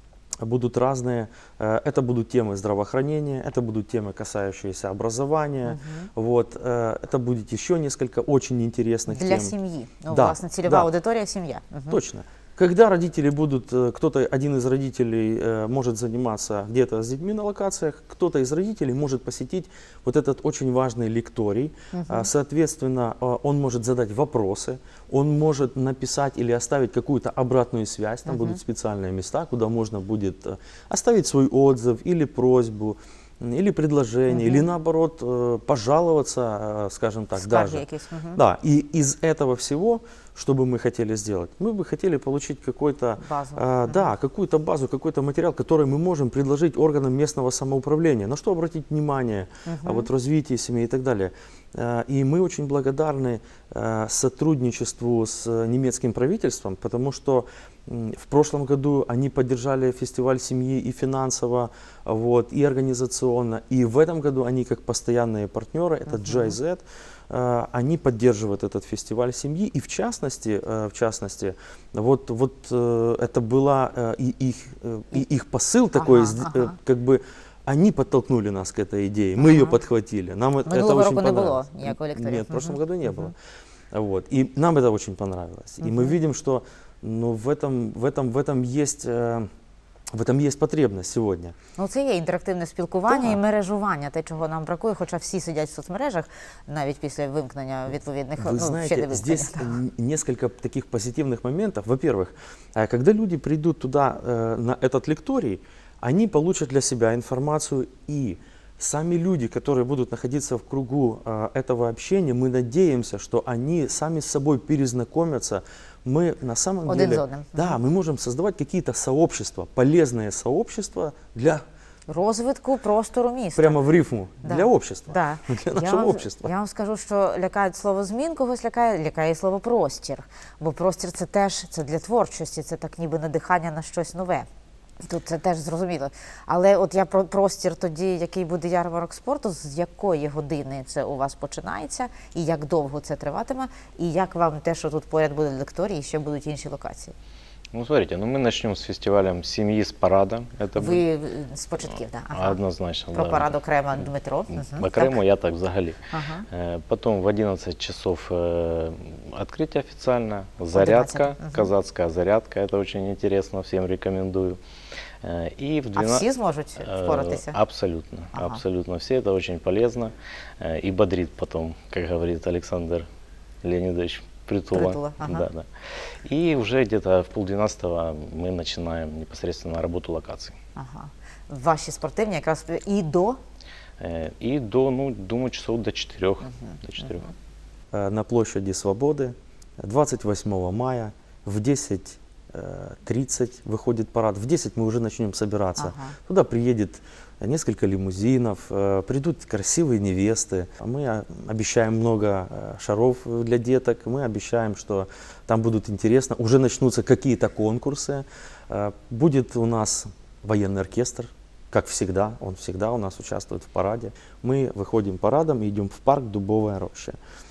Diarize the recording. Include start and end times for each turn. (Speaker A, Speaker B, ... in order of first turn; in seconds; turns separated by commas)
Speaker A: 0.4-9.5, Speaker B: 5.7-6.1, Speaker B: 9.1-12.0, Speaker A: 10.1-10.9, Speaker A: 11.9-83.3, Speaker B: 21.9-22.3, Speaker B: 28.3-28.6, Speaker B: 34.3-34.6, Speaker B: 37.4-38.4, Speaker B: 43.2-44.1, Speaker B: 49.7-50.1, Speaker B: 66.1-66.6, Speaker B: 76.0-76.8, Speaker B: 79.4-79.8, Speaker B: 80.7-83.3, Speaker A: 83.9-89.5, Speaker B: 85.8-86.2, Speaker A: 90.1-91.5, Speaker B: 91.8-99.8, Speaker A: 93.1-93.4, Speaker A: 98.4-121.6, Speaker B: 116.9-117.8, Speaker B: 122.1-123.8, Speaker A: 123.6-126.5, Speaker B: 124.4-134.5, Speaker B: 135.0-147.2, Speaker C: 147.7-151.1, Speaker B: 150.8-152.6, Speaker C: 152.3-153.6, Speaker B: 153.1-155.2, Speaker C: 154.5-164.6, Speaker B: 156.1-156.5, Speaker B: 160.7-161.7, Speaker C: 165.2-173.1, Speaker B: 165.9-167.6, Speaker B: 168.3-168.6, Speaker C: 173.6-175.7, Speaker B: 174.7-175.5, Speaker C: 176.2-180.6, Speaker B: 180.8-183.4, Speaker C: 184.0-187.3, Speaker B: 186.4-187.2, Speaker A: 187.9-217.2, Speaker B: 195.8-196.2